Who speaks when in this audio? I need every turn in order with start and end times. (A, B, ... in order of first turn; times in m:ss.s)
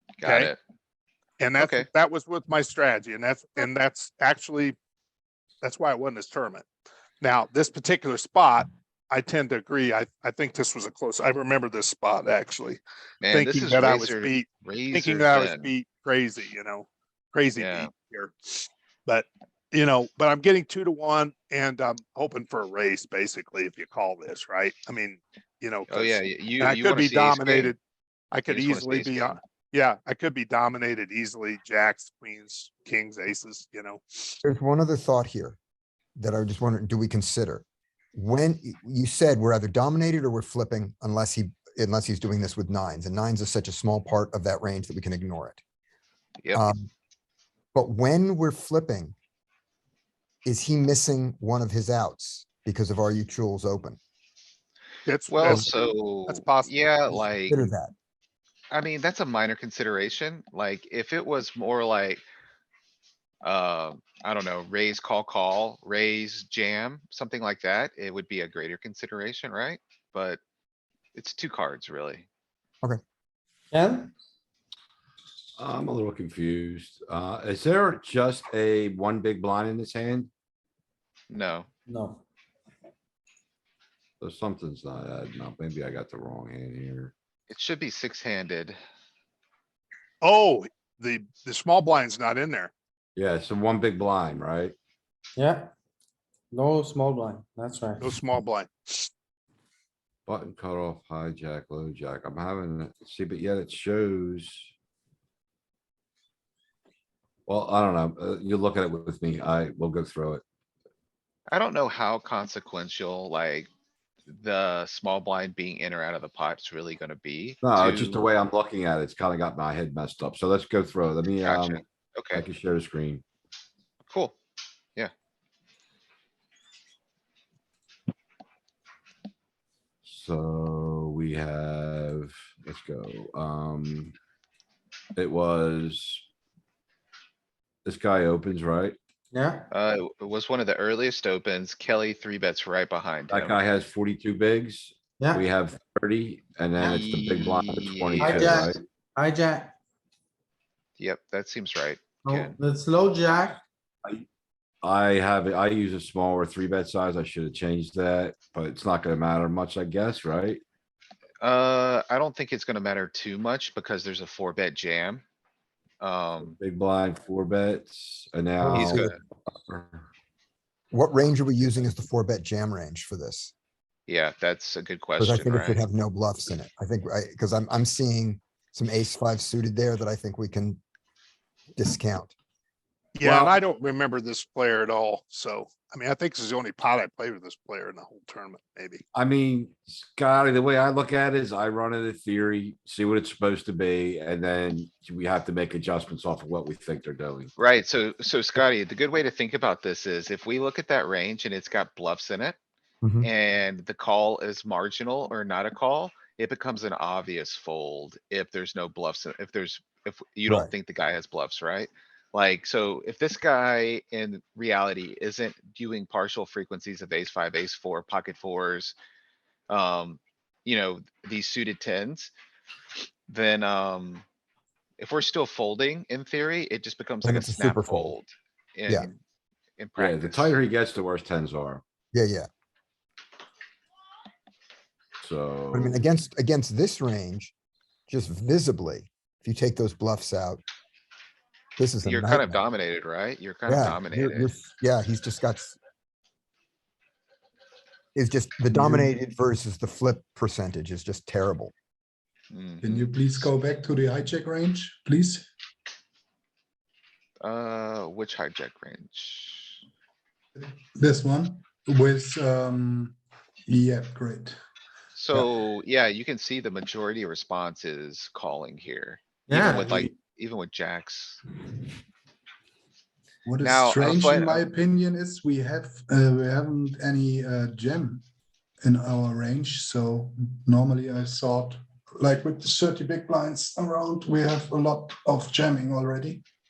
0:00.2-0:00.6 A
0:00.2-0:00.5 B
0:01.4-0:04.8 B
0:01.6-0:01.9 A
0:05.6-0:06.6 B
0:07.2-0:27.8 B
0:13.2-0:15.7 A
0:17.6-0:17.9 A
0:25.9-0:27.7 A
0:28.3-0:34.4 B
0:28.5-0:29.4 A
0:34.4-0:35.6 C
0:36.2-0:45.6 C
0:46.4-0:46.7 A
0:46.5-0:46.9 C
0:47.7-0:49.1 C
0:50.4-0:54.0 C
0:55.0-0:56.7 B
0:55.3-0:57.6 A
0:57.3-0:57.9 C
0:58.7-1:02.2 A
1:03.4-1:10.4 A
1:11.1-1:12.3 A
1:13.7-1:14.1 D
1:15.6-1:20.3 E
1:21.3-1:21.7 A
1:21.9-1:22.2 D
1:24.2-1:27.1 E
1:27.5-1:28.8 A
1:30.2-1:32.7 B
1:33.2-1:34.8 E
1:35.4-1:35.7 D
1:36.5-1:38.2 D
1:38.0-1:39.1 B
1:40.2-1:44.7 E
1:47.4-1:50.4 E
1:51.5-1:53.7 A
1:54.3-1:58.3 A
1:57.6-2:03.2 E
2:01.4-2:02.4 A
2:04.1-2:04.4 A
2:10.0-2:14.2 E
2:15.2-2:16.2 E
2:17.8-2:19.0 E
2:19.3-2:19.7 D
2:19.7-2:23.6 A
2:23.3-2:28.8 E
2:25.2-2:25.5 D
2:26.8-2:28.7 A
2:28.2-2:29.7 D
2:31.0-2:32.6 A
2:32.2-2:33.6 D
2:34.8-2:40.6 E
2:41.4-2:45.2 A
2:46.0-2:46.5 A
2:46.4-2:50.0 E
2:48.6-2:49.1 C
2:48.7-2:49.2 A
2:50.9-2:53.5 C
2:54.1-2:55.8 A
2:55.2-3:00.8 C
3:01.8-3:02.3 C
3:03.2-3:09.0 B
3:09.1-3:17.5 E
3:17.6-3:22.6 A
3:23.0-3:23.3 C
3:23.2-3:38.9 A
3:39.7-3:42.3 A
3:43.3-3:44.2 A
3:45.0-3:49.2 A
3:47.2-3:48.2 C
3:49.8-3:50.6 A
3:50.0-3:51.8 E
3:52.1-3:52.5 C
3:55.2-3:56.0 E
3:55.7-3:57.5 C
3:58.1-4:00.6 C
4:01.8-4:02.6 C
4:02.0-4:04.5 A
4:03.7-4:05.8 C
4:08.1-4:11.7 C
4:12.5-4:13.5 A
4:12.8-4:15.5 F
4:17.4-4:19.8 A
4:20.6-4:24.6 F
4:25.2-4:31.4 A
4:29.5-4:30.1 D
4:33.4-4:38.2 F
4:33.6-4:34.6 A
4:38.8-4:46.4 F